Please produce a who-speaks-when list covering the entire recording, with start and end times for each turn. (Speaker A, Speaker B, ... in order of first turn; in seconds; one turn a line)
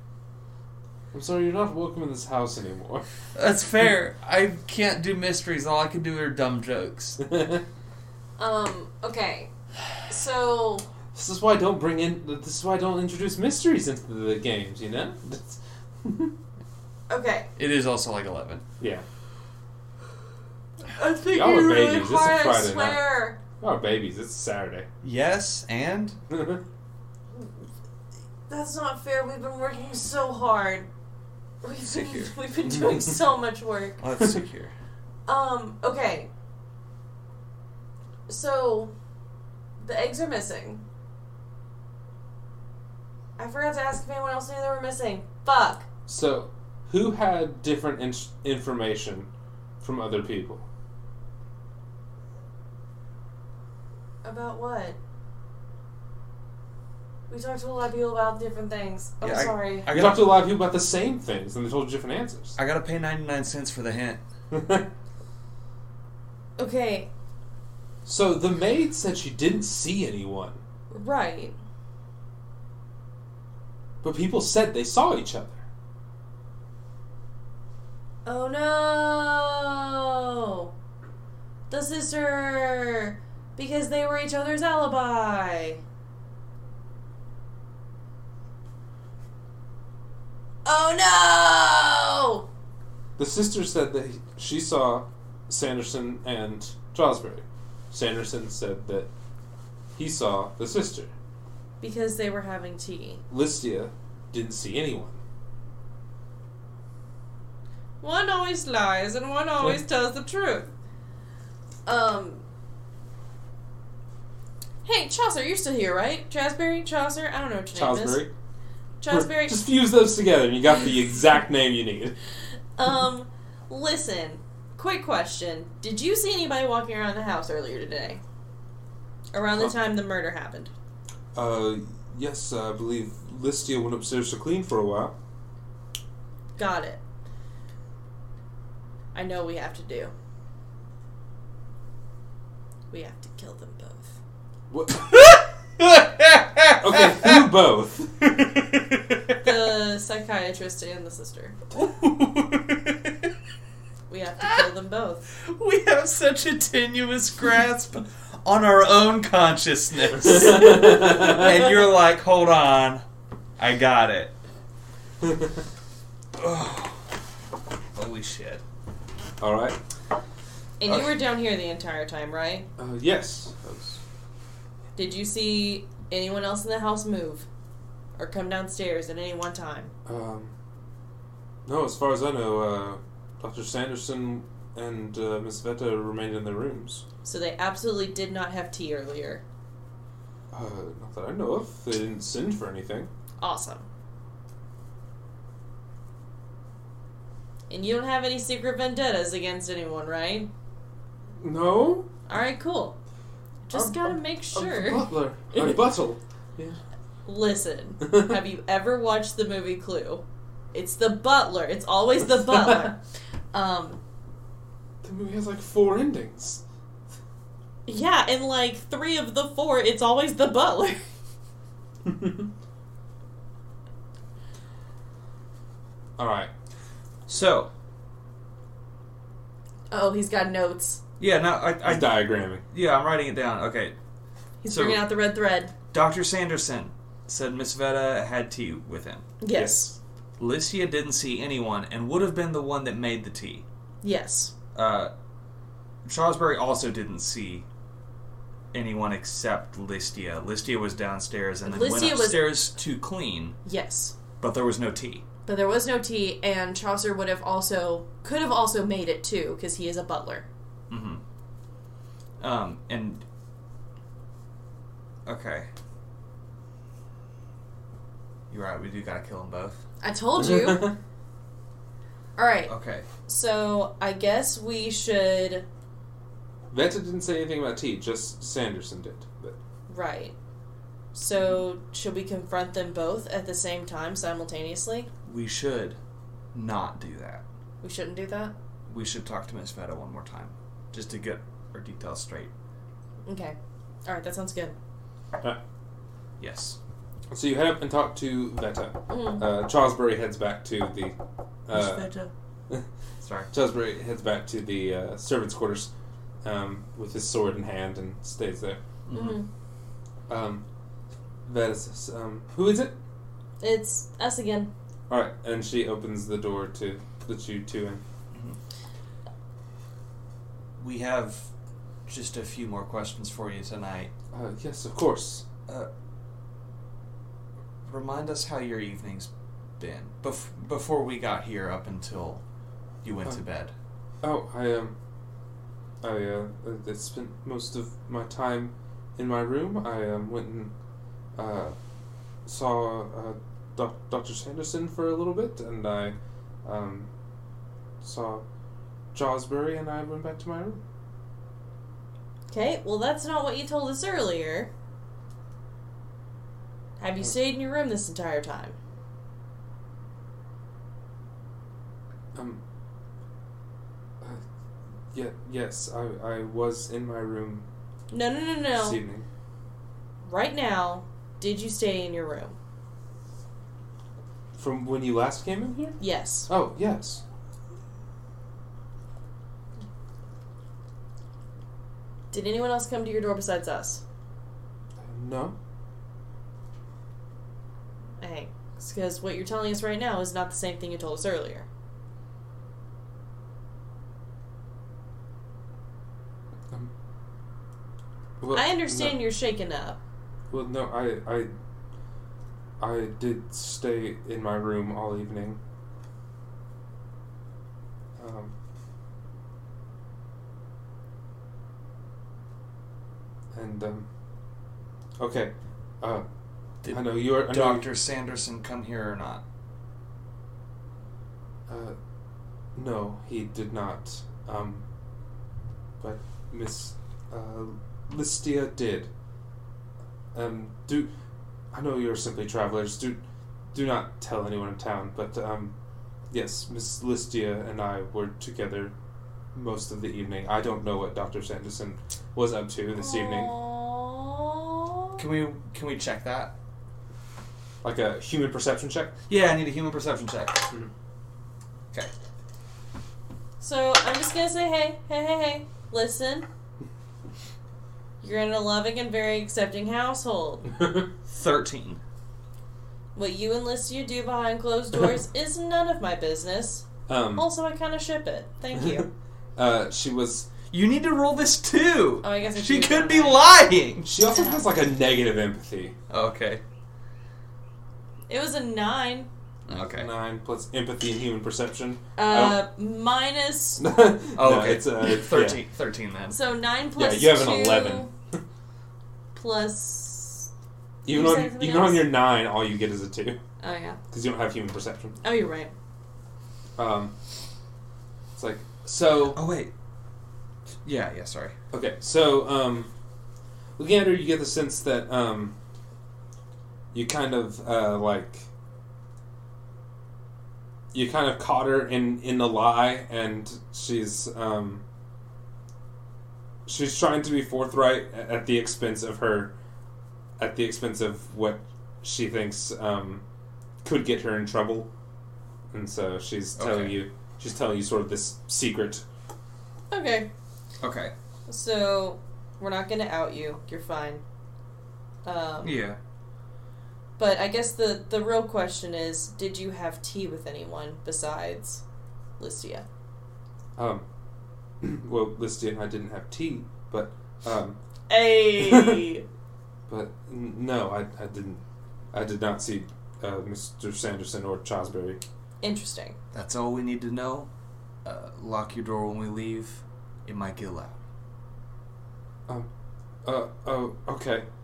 Speaker A: 1.1-3.0
Speaker B: 3.3-7.2
Speaker A: 7.2-7.6
Speaker C: 8.4-9.5
Speaker C: 10.0-10.9
Speaker A: 11.1-16.3
Speaker C: 17.1-17.5
Speaker B: 17.6-18.6
Speaker C: 20.9-23.4
Speaker B: 21.0-21.8
Speaker A: 21.2-23.0
Speaker A: 23.6-24.9
Speaker B: 25.0-26.2
Speaker A: 26.3-26.6
Speaker C: 28.5-30.9
Speaker C: 31.6-34.0
Speaker B: 31.9-32.3
Speaker A: 32.6-33.1
Speaker B: 34.0-34.7
Speaker C: 35.2-36.3
Speaker C: 38.3-38.9
Speaker C: 39.8-40.8
Speaker C: 43.4-45.9
Speaker A: 46.1-49.3
Speaker A: 49.8-50.6
Speaker C: 54.2-55.0
Speaker C: 57.3-59.9
Speaker B: 59.2-60.3
Speaker A: 59.9-62.5
Speaker B: 62.6-64.2
Speaker A: 64.5-64.9
Speaker C: 66.6-67.1
Speaker A: 68.0-70.6
Speaker C: 70.9-71.5
Speaker A: 74.0-75.6
Speaker C: 78.2-80.7
Speaker C: 81.7-85.8
Speaker C: 90.6-92.5
Speaker A: 93.2-99.1
Speaker A: 100.0-101.1
Speaker C: 101.8-103.2
Speaker A: 103.3-105.2
Speaker C: 108.0-110.7
Speaker C: 111.8-112.4
Speaker C: 114.8-118.2
Speaker A: 117.7-118.3
Speaker C: 119.0-119.6
Speaker A: 119.1-122.1
Speaker C: 122.8-128.2
Speaker C: 129.3-130.7
Speaker A: 131.3-135.2
Speaker C: 136.6-137.0
Speaker C: 139.1-140.1
Speaker C: 142.9-144.1
Speaker A: 144.7-145.1
Speaker B: 145.0-147.5
Speaker A: 146.8-148.2
Speaker B: 148.6-149.5
Speaker C: 149.4-151.6
Speaker B: 151.7-153.3
Speaker C: 154.1-155.2
Speaker B: 154.4-154.7
Speaker B: 155.4-163.0
Speaker A: 160.3-161.4
Speaker B: 163.6-164.3
Speaker A: 165.2-165.5
Speaker B: 166.3-167.1
Speaker B: 167.9-168.6
Speaker A: 169.4-169.8
Speaker C: 170.8-172.7
Speaker A: 172.8-174.0
Speaker C: 174.9-177.5
Speaker C: 178.2-179.9
Speaker A: 180.1-180.5
Speaker A: 181.7-187.0
Speaker C: 187.2-189.4
Speaker A: 190.5-193.1
Speaker C: 193.4-193.8
Speaker C: 197.7-200.5
Speaker A: 201.4-202.1
Speaker C: 202.3-203.0
Speaker C: 203.7-205.8
Speaker A: 203.7-206.8
Speaker C: 207.2-210.2
Speaker C: 210.7-213.0
Speaker A: 212.4-212.9
Speaker C: 213.5-214.0
Speaker A: 215.0-216.6
Speaker C: 217.8-221.0
Speaker A: 222.0-222.5
Speaker A: 226.2-226.5
Speaker B: 227.3-227.7
Speaker C: 229.9-231.0
Speaker B: 231.2-233.9
Speaker A: 231.8-232.6
Speaker C: 234.6-235.7
Speaker B: 234.7-235.1
Speaker B: 235.9-239.2
Speaker C: 239.4-239.9
Speaker A: 239.5-239.9
Speaker B: 240.4-243.6
Speaker C: 244.0-244.5
Speaker B: 244.7-245.1
Speaker B: 246.0-247.7
Speaker B: 248.7-253.6
Speaker C: 251.6-252.5
Speaker C: 253.6-254.1
Speaker B: 254.4-255.2
Speaker C: 255.4-260.4
Speaker B: 260.9-261.2
Speaker B: 262.4-263.2
Speaker B: 265.2-265.7
Speaker B: 268.5-269.8
Speaker C: 270.0-270.9
Speaker A: 270.4-270.9
Speaker C: 272.4-272.7
Speaker B: 272.7-273.1
Speaker C: 273.2-275.6
Speaker A: 276.7-279.6
Speaker C: 279.9-280.3
Speaker C: 281.1-285.1
Speaker B: 285.2-286.0
Speaker B: 286.5-287.4
Speaker C: 287.8-288.5
Speaker B: 288.9-292.5
Speaker C: 293.2-294.8
Speaker B: 296.4-296.8
Speaker A: 297.3-301.1
Speaker C: 299.1-299.4
Speaker A: 301.7-302.1
Speaker B: 301.7-302.3
Speaker B: 303.2-303.5
Speaker A: 303.5-305.9
Speaker A: 306.4-308.8
Speaker B: 309.1-309.4
Speaker C: 309.1-309.4
Speaker A: 310.3-310.6
Speaker A: 311.4-312.9
Speaker C: 313.6-314.7
Speaker A: 315.1-318.0
Speaker B: 318.3-318.6
Speaker B: 320.8-321.5
Speaker B: 322.1-324.1
Speaker A: 324.3-325.4
Speaker B: 327.9-332.4
Speaker B: 333.0-333.7
Speaker A: 334.2-334.9
Speaker A: 336.0-340.7
Speaker A: 341.4-341.8
Speaker A: 342.4-347.1
Speaker A: 348.0-348.4
Speaker A: 349.1-350.8
Speaker C: 352.5-354.7
Speaker C: 357.0-358.8
Speaker A: 362.3-362.6
Speaker A: 365.1-367.6
Speaker C: 368.1-369.0
Speaker A: 368.7-369.2
Speaker C: 370.2-372.5
Speaker A: 374.5-375.9
Speaker C: 376.0-376.5
Speaker A: 376.5-377.2
Speaker C: 382.3-384.0
Speaker A: 385.0-385.5
Speaker C: 388.2-391.7
Speaker A: 398.4-399.2
Speaker C: 398.5-400.0
Speaker A: 400.5-401.5
Speaker A: 402.8-405.6
Speaker A: 408.2-408.5
Speaker A: 413.5-414.1
Speaker A: 415.2-416.2
Speaker B: 416.8-419.4
Speaker A: 416.9-417.9
Speaker A: 421.7-421.9
Speaker A: 422.8-424.8
Speaker A: 426.0-429.1
Speaker A: 430.3-431.1
Speaker A: 431.7-433.2
Speaker A: 433.7-435.7
Speaker A: 436.3-438.9
Speaker A: 439.5-443.5
Speaker C: 443.0-445.2
Speaker B: 445.2-446.5
Speaker A: 447.8-449.1
Speaker B: 449.3-450.7
Speaker C: 453.6-456.4
Speaker C: 458.2-460.7
Speaker B: 461.3-462.0
Speaker C: 463.1-466.8
Speaker A: 467.1-467.4
Speaker C: 467.4-469.1
Speaker A: 468.8-469.0
Speaker A: 469.6-470.5
Speaker B: 470.7-474.1
Speaker C: 472.2-473.4
Speaker A: 474.1-475.9
Speaker C: 474.3-474.6
Speaker B: 476.1-476.6
Speaker C: 478.3-479.3
Speaker B: 479.7-480.1
Speaker A: 479.7-482.6
Speaker C: 482.2-483.8
Speaker A: 483.8-485.6
Speaker B: 484.4-486.4
Speaker C: 486.3-488.1
Speaker A: 487.0-488.4
Speaker C: 489.3-490.5
Speaker A: 491.0-493.4
Speaker C: 491.1-492.1
Speaker C: 493.6-494.0
Speaker A: 494.1-495.2
Speaker C: 495.2-495.7
Speaker A: 496.8-497.1
Speaker A: 498.3-499.4
Speaker B: 499.3-499.7
Speaker B: 500.8-501.5
Speaker A: 501.7-502.9
Speaker A: 503.8-505.5
Speaker A: 506.9-508.5
Speaker A: 510.9-514.8
Speaker A: 516.6-519.5
Speaker A: 520.4-523.2
Speaker A: 523.8-524.9
Speaker A: 525.7-529.0
Speaker B: 526.5-527.0
Speaker C: 529.9-530.3
Speaker B: 530.8-531.1
Speaker C: 531.5-534.2
Speaker C: 535.2-535.8
Speaker B: 535.6-536.0
Speaker C: 537.2-541.8
Speaker C: 542.4-542.8
Speaker A: 543.8-544.0
Speaker A: 544.8-547.8
Speaker C: 548.1-549.2
Speaker A: 548.6-549.0
Speaker A: 549.9-551.6
Speaker A: 552.1-555.2
Speaker C: 555.6-556.1
Speaker B: 556.3-557.5
Speaker B: 558.0-561.0
Speaker A: 563.2-564.4